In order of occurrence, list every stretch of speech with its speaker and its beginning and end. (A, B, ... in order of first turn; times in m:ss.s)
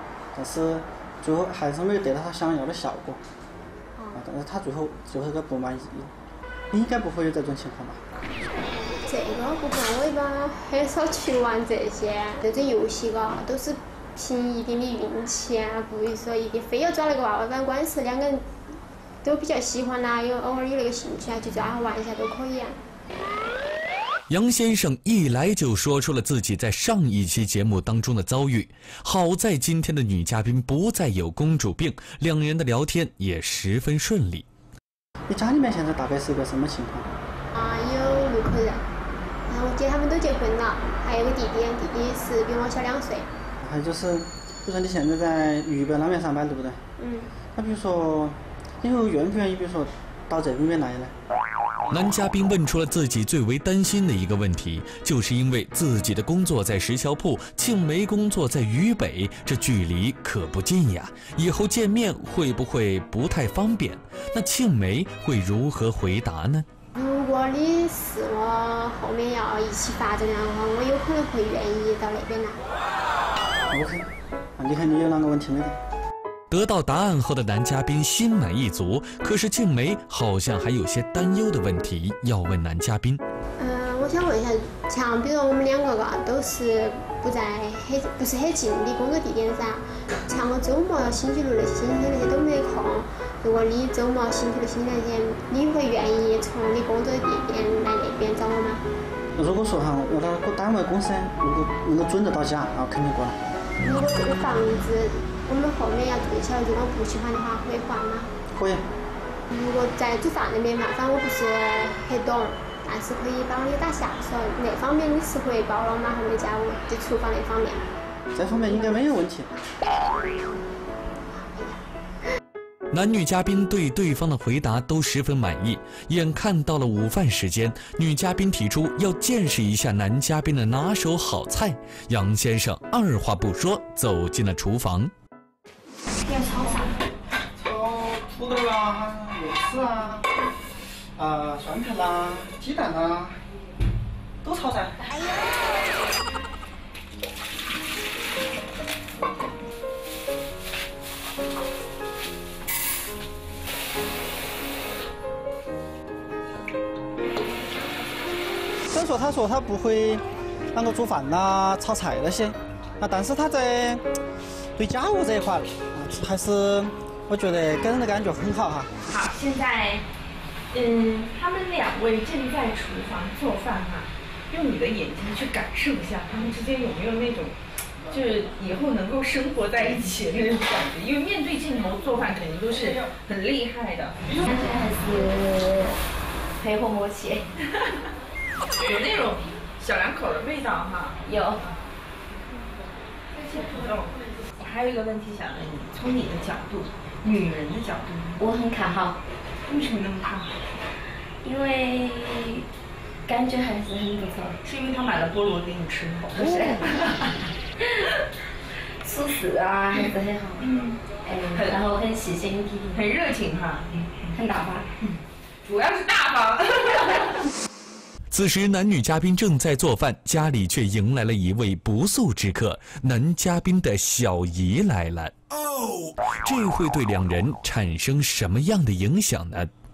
0:00.3-0:03.2 A
0:04.0-0:04.2 B
0:04.1-0:06.1 A
0:06.7-0:08.0 A
0:09.0-0:18.4 B
0:19.2-0:22.8 B
0:24.3-0:34.4 C
0:35.3-0:37.1 A
0:37.5-0:38.8 B
0:39.5-0:43.3 B
0:43.6-0:46.8 A
0:47.0-0:47.3 B
0:47.5-0:51.1 A
0:51.9-1:06.6 C
1:06.9-1:12.6 B
1:13.7-1:15.8 A
1:16.5-1:23.2 C
1:23.6-1:38.8 B
1:39.4-1:43.4 A
1:43.8-1:48.3 B
1:48.5-1:48.8 A
1:49.5-1:57.9 B
1:58.3-1:59.5 A
2:01.4-2:01.8 B
2:02.9-2:15.1 C
2:16.2-2:16.8 D
2:17.6-2:20.2 A
2:21.2-2:23.4 A
2:24.4-2:25.2 A
2:38.9-2:44.0 A
2:44.8-2:48.9 A
2:49.1-2:50.0 E
2:50.7-2:57.6 E
2:58.1-3:04.4 E
3:04.3-3:06.0 D
3:06.6-3:07.4 D
3:08.8-3:11.2 E
3:11.2-3:11.6 D
3:13.4-3:18.4 E
3:18.4-3:19.2 D
3:19.7-3:20.6 E
3:21.4-3:22.6 D
3:23.2-3:24.6 D
3:24.6-3:27.3 E
3:26.4-3:26.8 D
3:29.0-3:30.7 D
3:30.6-3:31.0 E
3:31.2-3:33.0 D
3:32.9-3:33.9 E
3:34.3-3:34.9 D
3:35.6-3:37.3 E
3:38.3-3:45.3 C
3:46.4-3:49.7 C